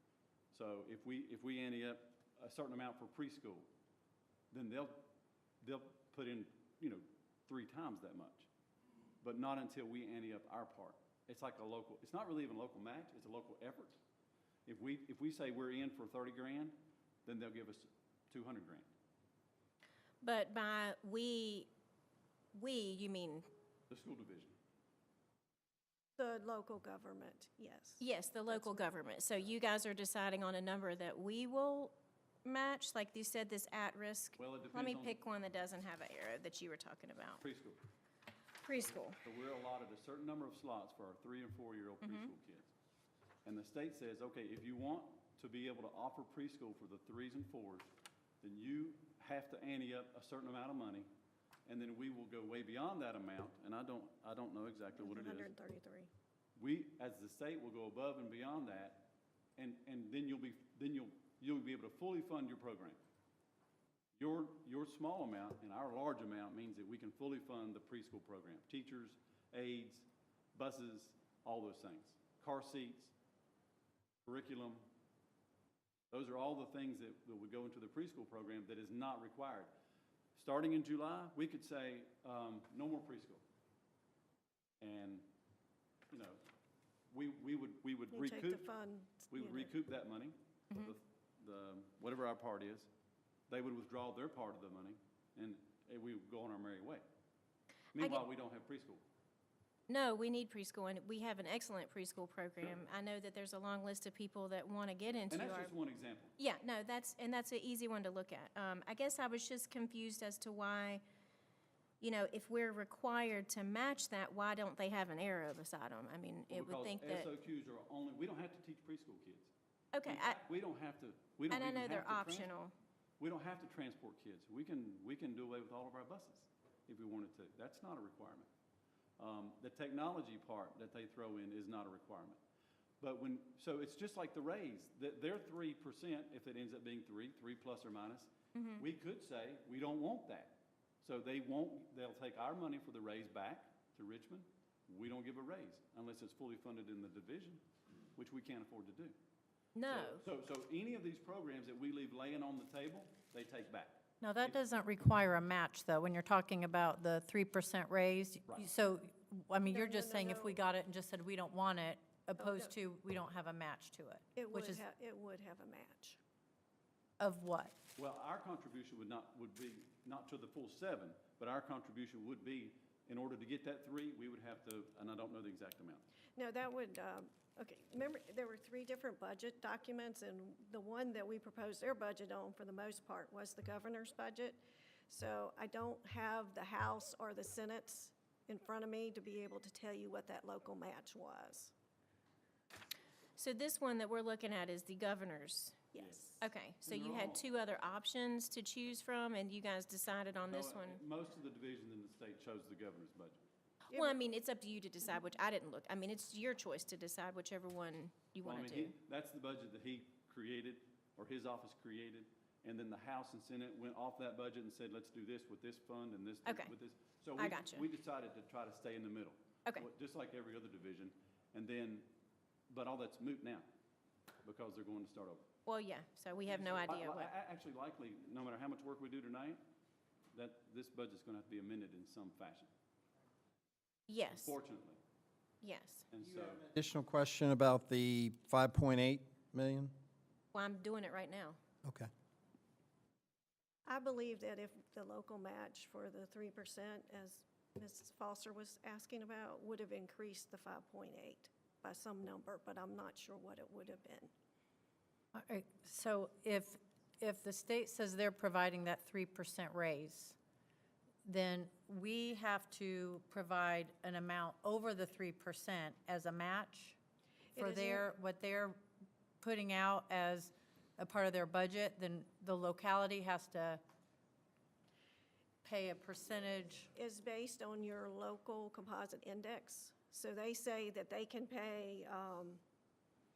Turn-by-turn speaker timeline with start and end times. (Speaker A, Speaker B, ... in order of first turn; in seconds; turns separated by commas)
Speaker A: 0.5-3.7, Speaker A: 4.5-5.1, Speaker A: 5.6-8.5, Speaker A: 9.2-14.0, Speaker A: 14.7-18.9, Speaker B: 20.2-21.7, Speaker B: 22.5-23.5, Speaker A: 23.9-24.6, Speaker C: 26.2-28.9, Speaker B: 28.0-37.4, Speaker A: 34.4-35.2, Speaker A: 37.4-37.8, Speaker B: 38.6-39.2, Speaker A: 38.8-42.7, Speaker B: 42.0-42.3, Speaker A: 43.5-47.9, Speaker A: 48.4-51.1, Speaker A: 51.7-55.5, Speaker C: 55.0-56.1, Speaker A: 56.6-63.0, Speaker A: 64.2-73.1, Speaker A: 74.3-74.9, Speaker A: 76.1-79.7, Speaker A: 80.3-83.4, Speaker A: 84.8-85.3, Speaker A: 86.1-86.4, Speaker A: 87.1-88.6, Speaker C: 88.1-89.7, Speaker A: 89.3-92.9, Speaker A: 93.5-97.0, Speaker A: 98.0-99.0, Speaker B: 99.9-105.7, Speaker A: 105.3-106.3, Speaker B: 106.4-111.0, Speaker B: 112.0-117.3, Speaker A: 116.5-119.5, Speaker B: 119.9-120.4, Speaker A: 120.0-122.5, Speaker B: 121.5-122.7, Speaker A: 123.2-128.5, Speaker A: 129.2-132.4, Speaker A: 133.0-147.6, Speaker B: 138.6-138.8, Speaker A: 148.2-149.2, Speaker B: 149.8-150.2, Speaker A: 149.9-154.6, Speaker D: 154.2-164.8, Speaker C: 159.7-160.5, Speaker C: 162.4-162.7, Speaker C: 164.3-166.2, Speaker D: 167.2-167.8, Speaker A: 168.0-176.1, Speaker C: 176.4-191.7, Speaker B: 193.4-195.9, Speaker C: 195.9-196.4, Speaker A: 195.9-197.4, Speaker B: 196.4-201.0, Speaker A: 200.5-203.4, Speaker B: 203.9-208.9, Speaker C: 203.9-204.2, Speaker A: 208.4-222.1, Speaker B: 216.4-216.7, Speaker B: 217.4-217.8, Speaker A: 222.7-223.7, Speaker A: 224.4-225.5, Speaker B: 225.7-227.3, Speaker A: 226.5-229.6, Speaker A: 230.3-232.7, Speaker B: 234.1-234.6, Speaker A: 234.3-235.0, Speaker B: 235.6-236.1, Speaker A: 236.1-236.7, Speaker E: 236.7-239.9, Speaker B: 240.5-241.6, Speaker E: 241.8-242.1, Speaker C: 243.9-254.3, Speaker D: 255.3-260.4, Speaker D: 261.2-267.0, Speaker C: 267.5-268.1, Speaker D: 267.6-268.8, Speaker D: 269.4-273.8, Speaker D: 275.6-276.9, Speaker C: 276.9-282.6